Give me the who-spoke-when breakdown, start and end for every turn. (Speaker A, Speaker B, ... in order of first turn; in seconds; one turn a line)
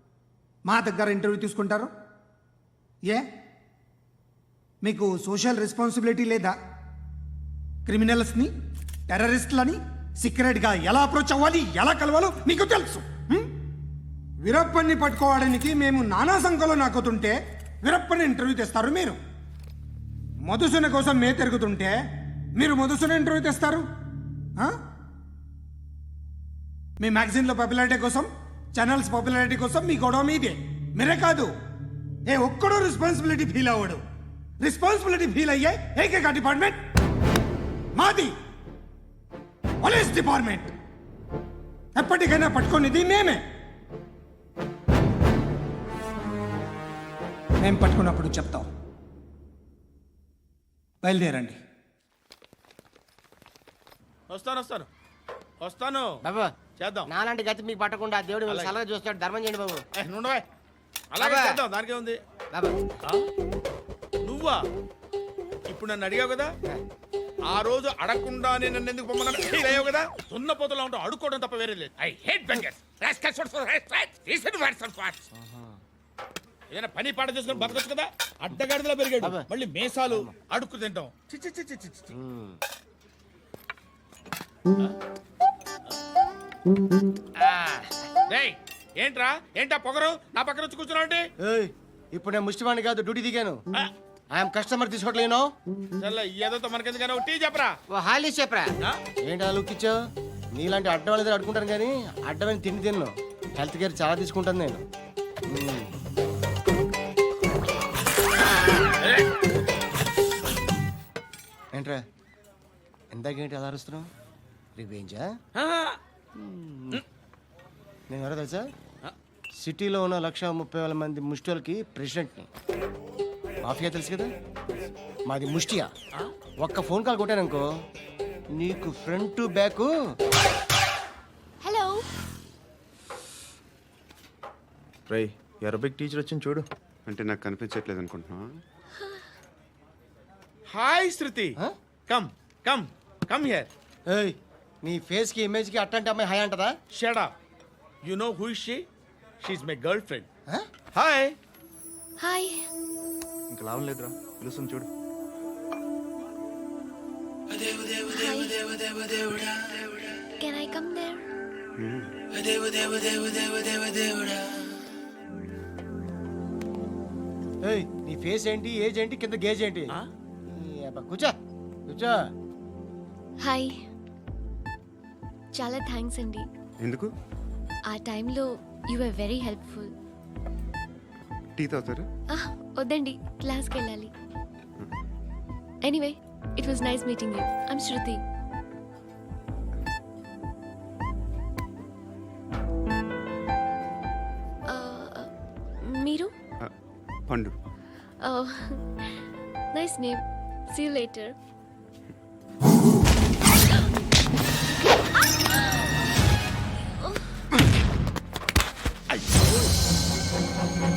Speaker A: 0.7-1.9
Speaker A: 4.8-6.5
Speaker A: 7.9-8.5
Speaker A: 9.1-13.5
Speaker A: 14.4-19.1
Speaker A: 20.4-21.9
Speaker A: 22.6-23.8
Speaker A: 27.0-31.5
Speaker A: 32.3-34.0
Speaker A: 34.6-36.8
Speaker A: 38.0-38.3
Speaker A: 39.8-40.7
Speaker A: 42.0-43.4
Speaker A: 47.6-48.6
Speaker A: 51.0-51.6
Speaker B: 54.3-54.9
Speaker B: 55.6-56.1
Speaker C: 56.2-56.5
Speaker B: 56.8-57.0
Speaker C: 57.0-59.8
Speaker B: 60.0-60.4
Speaker B: 61.1-62.2
Speaker C: 61.2-61.6
Speaker B: 64.2-64.6
Speaker B: 65.7-66.5
Speaker B: 67.5-75.2
Speaker C: 75.4-75.7
Speaker B: 76.7-82.0
Speaker C: 77.5-77.8
Speaker C: 79.2-79.5
Speaker C: 80.1-80.3
Speaker C: 82.1-82.6
Speaker B: 88.3-91.2
Speaker C: 91.4-93.6
Speaker C: 94.3-95.5
Speaker B: 96.0-97.7
Speaker C: 97.9-98.7
Speaker C: 99.2-99.9
Speaker C: 100.5-104.8
Speaker C: 105.5-105.9
Speaker C: 113.1-114.1
Speaker C: 114.8-115.3
Speaker C: 116.4-117.0
Speaker C: 118.1-118.7
Speaker C: 119.6-122.5
Speaker C: 123.6-124.3
Speaker C: 125.3-125.9
Speaker C: 126.6-127.6
Speaker C: 128.5-129.9
Speaker D: 131.6-132.1
Speaker E: 135.1-136.6
Speaker F: 137.1-138.4
Speaker B: 140.7-141.5
Speaker B: 142.1-143.7
Speaker C: 144.1-146.7
Speaker B: 146.9-147.3
Speaker B: 148.0-148.9
Speaker B: 149.4-150.3
Speaker B: 150.9-151.3
Speaker D: 152.2-152.6
Speaker E: 153.5-154.9
Speaker D: 158.1-158.6
Speaker D: 160.4-161.2
Speaker F: 161.8-162.1
Speaker C: 167.6-169.9
Speaker C: 170.5-171.3
Speaker D: 173.4-173.7
Speaker D: 175.5-176.5
Speaker F: 176.8-177.1
Speaker D: 177.9-179.9
Speaker F: 181.6-182.1
Speaker D: 182.3-184.1
Speaker D: 185.8-188.2
Speaker D: 194.7-195.3
Speaker D: 195.8-196.3
Speaker F: 197.3-197.5
Speaker D: 198.2-201.3